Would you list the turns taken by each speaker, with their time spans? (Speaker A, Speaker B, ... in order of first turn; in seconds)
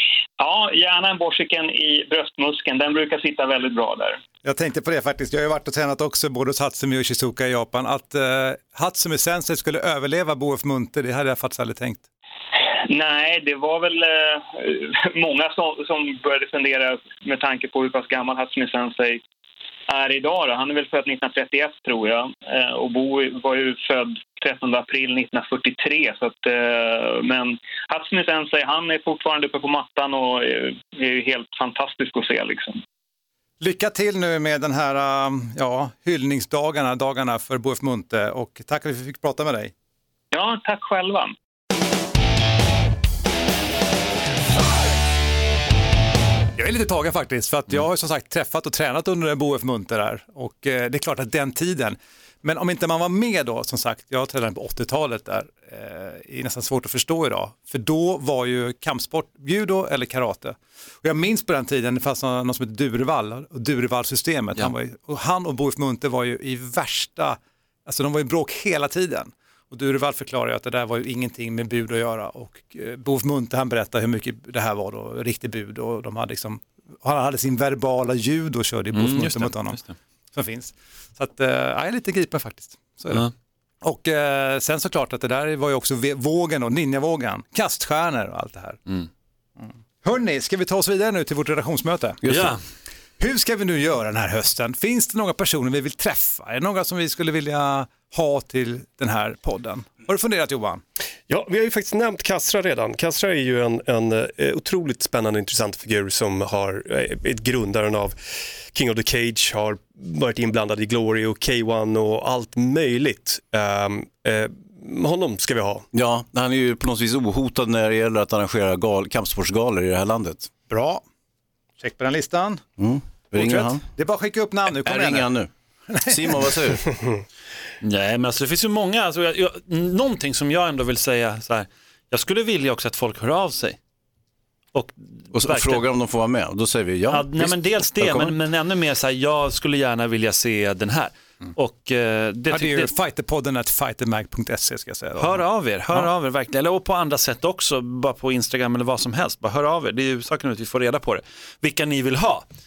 Speaker A: 0.4-4.2, 12.9-19.2, 19.9-32.8, 40.3-41.3
Speaker B: 4.4-12.0, 33.6-39.7, 46.6-79.8, 80.3-83.2, 83.8-88.8, 89.6-92.2, 93.2-100.8, 120.7-121.0, 121.8-122.6, 123.3-125.3, 125.9-126.2, 142.5-146.1
Speaker C: 78.9-79.9, 92.3-92.6, 127.8-133.8, 134.7-135.8, 137.1-142.9, 145.2-152.4
Speaker D: 92.2-92.5, 115.9-120.5, 122.8-123.8, 124.7-125.5, 126.0-126.9, 135.3-138.3
Speaker E: 101.3-115.9